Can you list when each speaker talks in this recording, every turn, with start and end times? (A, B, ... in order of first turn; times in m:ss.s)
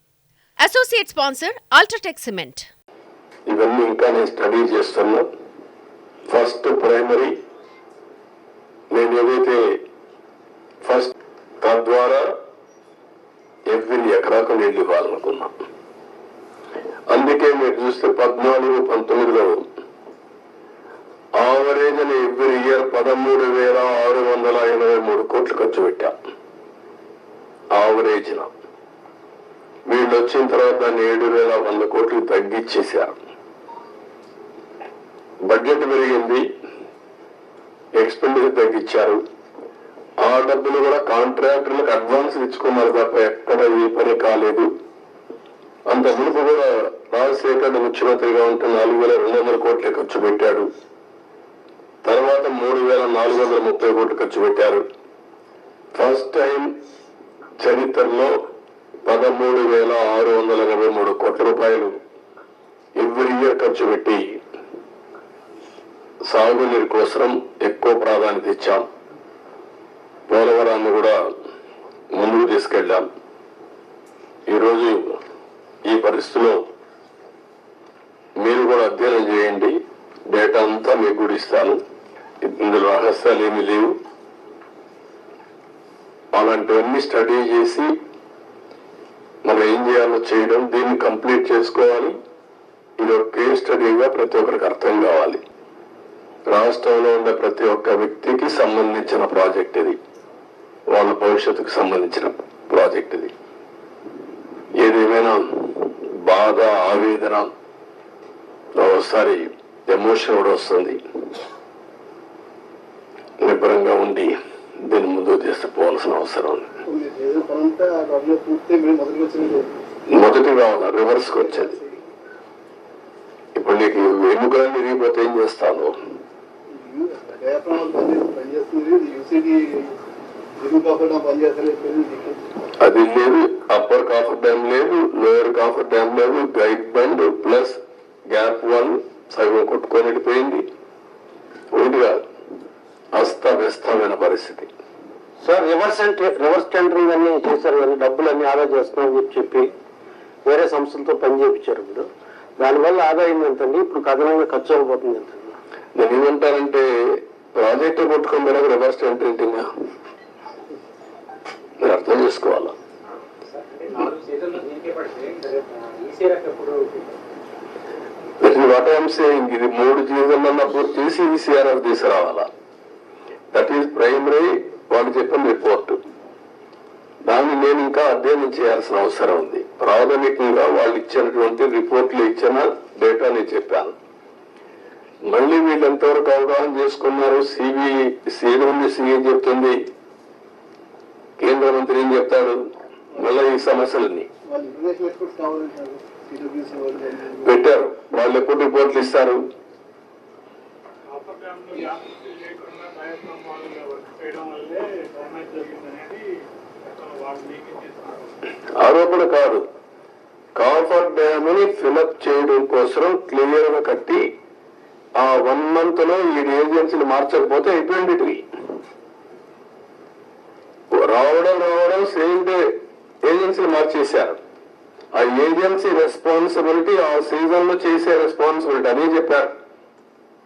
0:00.6-0:02.7 A
0:03.5-0:05.3 B
0:06.3-0:07.4 B
0:08.9-0:09.7 B
0:10.8-0:12.3 B
0:13.7-0:15.5 B
0:17.1-0:19.6 B
0:21.4-0:26.1 B
0:27.7-0:28.5 B
0:29.9-0:33.2 B
0:35.4-0:36.4 B
0:38.0-0:39.2 B
0:40.2-0:44.7 B
0:45.9-0:50.7 B
0:52.0-0:54.8 B
0:55.9-0:56.7 B
0:57.6-0:58.3 B
0:59.0-1:02.0 B
1:03.0-1:04.4 B
1:06.3-1:08.9 B
1:10.3-1:11.2 B
1:12.1-1:13.1 B
1:14.5-1:15.2 B
1:15.9-1:16.6 B
1:18.4-1:19.8 B
1:20.3-1:21.8 B
1:22.4-1:23.9 B
1:26.3-1:27.9 B
1:29.4-1:32.1 B
1:33.0-1:35.4 B
1:36.5-1:40.0 B
1:40.9-1:43.3 B
1:44.8-1:47.5 B
1:48.8-1:51.0 B
1:53.4-1:56.7 B
1:56.8-1:59.7 C
2:00.1-2:01.8 B
2:01.4-2:02.0 C
2:03.6-2:06.0 B
2:06.7-2:09.9 C
2:10.6-2:12.4 C
2:12.8-2:17.8 B
2:18.3-2:20.6 B
2:21.7-2:22.2 B
2:23.1-2:24.7 B
2:25.4-2:29.7 D
2:30.4-2:35.6 D
2:35.9-2:36.9 B
2:37.5-2:39.6 B
2:41.8-2:42.7 B
2:43.6-2:47.0 E
2:48.4-2:52.5 B
2:53.5-2:56.0 B
2:57.2-3:03.9 B
3:05.3-3:09.8 B
3:11.4-3:12.6 B
3:13.2-3:14.3 B
3:14.4-3:17.6 C
3:17.4-3:19.4 B
3:21.1-3:26.2 F
3:26.8-3:28.3 F
3:28.7-3:29.6 B
3:30.6-3:34.2 B
3:35.2-3:38.4 B
3:40.9-3:42.6 B
3:43.2-3:44.4 B
3:45.1-3:49.5 B